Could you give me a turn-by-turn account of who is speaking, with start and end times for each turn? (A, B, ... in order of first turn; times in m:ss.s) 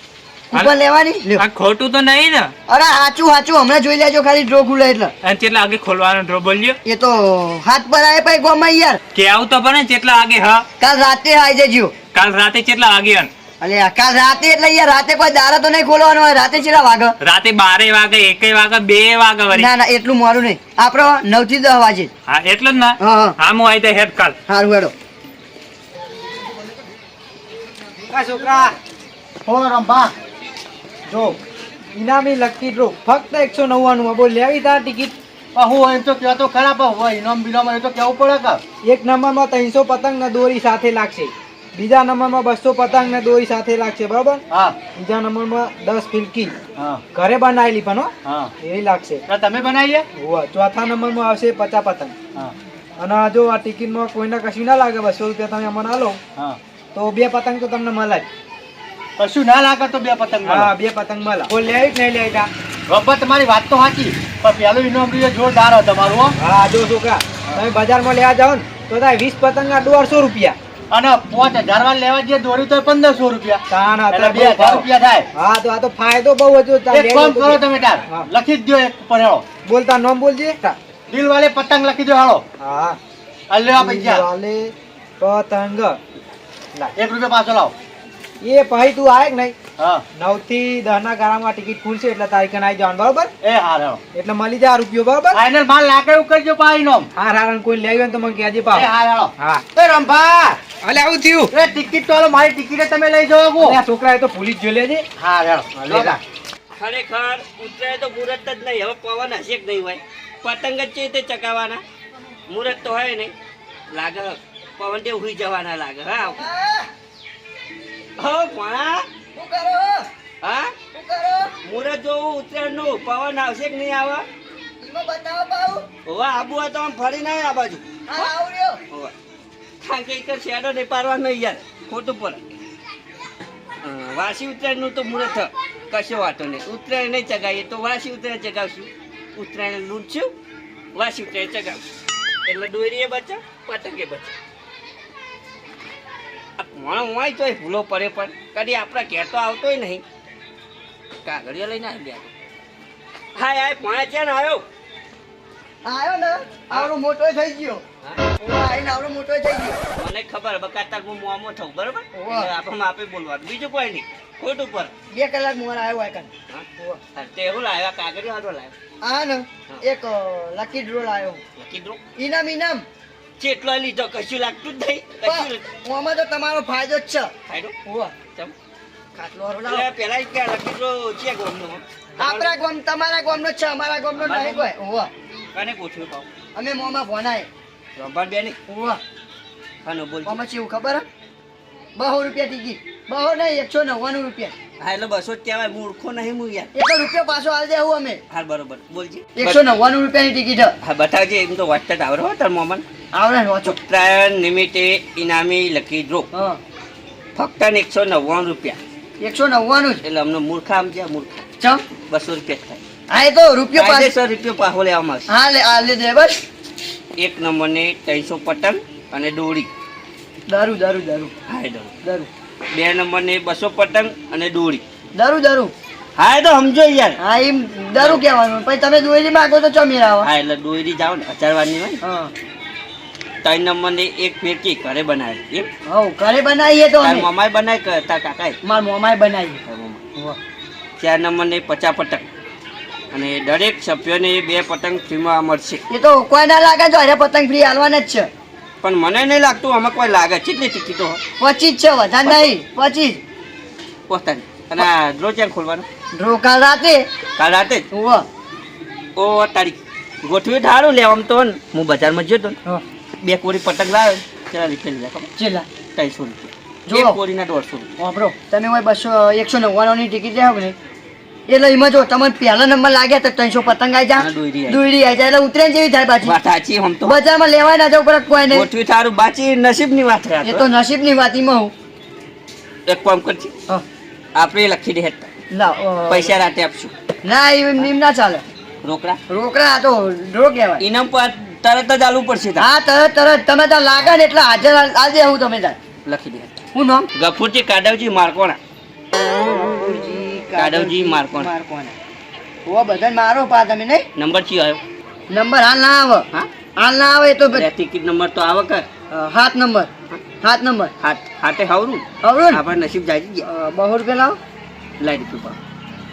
0:00.5-0:01.4 A
0:01.4-0:02.5 B
0:02.7-0:05.1 A
0:05.2-0:06.8 B
0:06.8-0:09.0 A
0:09.1-0:10.6 B
0:10.8-0:11.9 A
0:12.1-0:13.3 B
0:13.6-0:17.2 A
0:17.2-0:19.7 B
0:19.5-0:22.1 A
0:22.3-0:24.4 B
0:23.0-0:23.4 A
0:24.5-0:24.9 A
0:28.1-0:28.8 C
0:29.4-0:30.1 D
0:31.1-0:31.4 C
0:31.9-0:35.1 C
0:35.6-0:38.6 D
0:38.8-0:44.4 C
0:44.5-0:44.8 D
0:44.9-0:46.6 C
0:46.8-0:47.0 D
0:47.1-0:49.2 C
0:48.2-0:48.5 D
0:49.3-0:50.1 D
0:50.2-0:52.2 C
0:53.0-0:56.2 C
0:56.9-0:58.2 C
0:59.2-1:00.7 D
1:00.4-1:02.5 C
1:02.9-1:06.4 D
1:06.4-1:10.6 C
1:10.9-1:15.2 D
1:13.7-1:18.3 C
1:16.9-1:19.4 D
1:19.6-1:20.8 C
1:21.1-1:22.4 D
1:22.6-1:23.0 C
1:23.5-1:24.3 D
1:23.7-1:26.0 C
1:27.0-1:27.7 D
1:28.4-1:29.6 C
1:29.8-1:30.0 D
1:30.2-1:33.3 C
1:33.4-1:34.0 D
1:34.1-1:35.4 C
1:35.3-1:37.1 D
1:37.1-1:39.6 C
1:38.7-1:40.6 D
1:40.8-1:41.5 C
1:41.5-1:43.8 D
1:43.6-1:45.0 C
1:45.2-1:46.2 D
1:45.9-1:46.2 C
1:46.8-1:51.8 E
1:52.5-1:53.3 E
1:53.9-1:56.4 E
1:56.2-1:56.9 A
1:58.2-1:59.0 E
1:59.4-2:00.1 A
2:00.4-2:00.7 E
2:00.9-2:01.5 A
2:01.6-2:04.2 E
2:04.8-2:05.9 A
2:06.1-2:08.3 E
2:08.1-2:08.8 A
2:09.8-2:12.4 E
2:13.8-2:20.3 E
2:20.9-2:21.8 E
2:22.4-2:24.3 E
2:26.6-2:30.0 E
2:31.2-2:32.3 E
2:33.4-2:34.6 E
2:35.8-2:37.8 A
2:38.4-2:39.8 A
2:40.0-2:44.9 E
2:42.1-2:42.5 A
2:45.1-2:47.0 A
2:46.5-2:48.7 E
2:49.0-2:51.4 A
2:51.6-2:52.0 E
2:52.2-2:52.9 A
2:53.4-2:55.7 E
2:55.2-2:57.3 A
2:57.5-2:57.8 E
2:57.8-2:58.1 A
2:59.2-2:59.9 A
2:59.7-3:02.5 E
3:02.2-3:05.1 A
3:04.2-3:04.7 E
3:05.5-3:06.2 E
3:06.6-3:07.5 A
3:08.0-3:08.6 E
3:08.7-3:09.0 A
3:09.8-3:10.4 E
3:10.2-3:11.0 A
3:12.0-3:14.5 A
3:14.8-3:16.7 E
3:16.7-3:18.2 A
3:18.3-3:19.6 E
3:19.4-3:20.8 A
3:20.8-3:22.8 E
3:23.1-3:23.8 A
3:23.6-3:26.3 E
3:26.3-3:26.6 A
3:27.4-3:28.8 E
3:29.2-3:30.0 A
3:30.0-3:31.4 E
3:32.1-3:32.8 E
3:33.1-3:34.1 A
3:33.7-3:35.3 E
3:35.3-3:36.4 A
3:37.2-3:39.7 E
3:40.5-3:41.3 A
3:41.5-3:41.9 E
3:42.0-3:42.3 A
3:42.7-3:44.8 E
3:45.2-3:45.7 A
3:46.2-3:47.2 E
3:47.2-3:50.3 A
3:47.9-3:48.2 E
3:50.2-3:52.0 E
3:52.0-3:52.3 A
3:53.4-3:55.7 E
3:55.9-3:57.3 A
3:57.0-3:58.6 E
3:58.6-3:59.6 A
3:59.7-4:00.0 E
4:01.0-4:02.2 E
4:03.1-4:05.8 E
4:05.9-4:08.3 A
4:08.8-4:11.2 E
4:11.4-4:13.2 A
4:14.1-4:15.8 E
4:16.2-4:17.1 A
4:17.4-4:17.8 E
4:17.9-4:18.3 A
4:19.2-4:22.6 E
4:23.2-4:25.3 E
4:25.4-4:25.7 A
4:25.9-4:27.9 E
4:26.9-4:27.2 A
4:28.0-4:30.8 A
4:31.5-4:36.3 A
4:34.2-4:34.8 E
4:36.2-4:37.2 E
4:37.0-4:38.7 A
4:38.5-4:40.7 E
4:40.4-4:41.7 A
4:42.9-4:43.5 E
4:44.4-4:45.3 E
4:45.5-4:46.4 A
4:46.1-4:46.9 E
4:47.2-4:48.4 A
4:48.8-4:49.2 E
4:49.3-4:50.8 A
4:50.8-4:52.7 E
4:52.6-4:55.8 A
4:56.1-4:56.6 E
4:56.7-4:57.1 A
4:57.2-4:58.6 E
4:59.5-5:01.9 A
5:00.6-5:01.5 E
5:02.7-5:04.1 A
5:04.2-5:04.8 E
5:05.3-5:06.3 A
5:06.8-5:07.7 A
5:07.5-5:08.9 E
5:09.1-5:09.9 A
5:10.4-5:10.9 A
5:11.0-5:13.4 E
5:12.2-5:12.6 A
5:13.4-5:14.4 A
5:15.0-5:15.6 E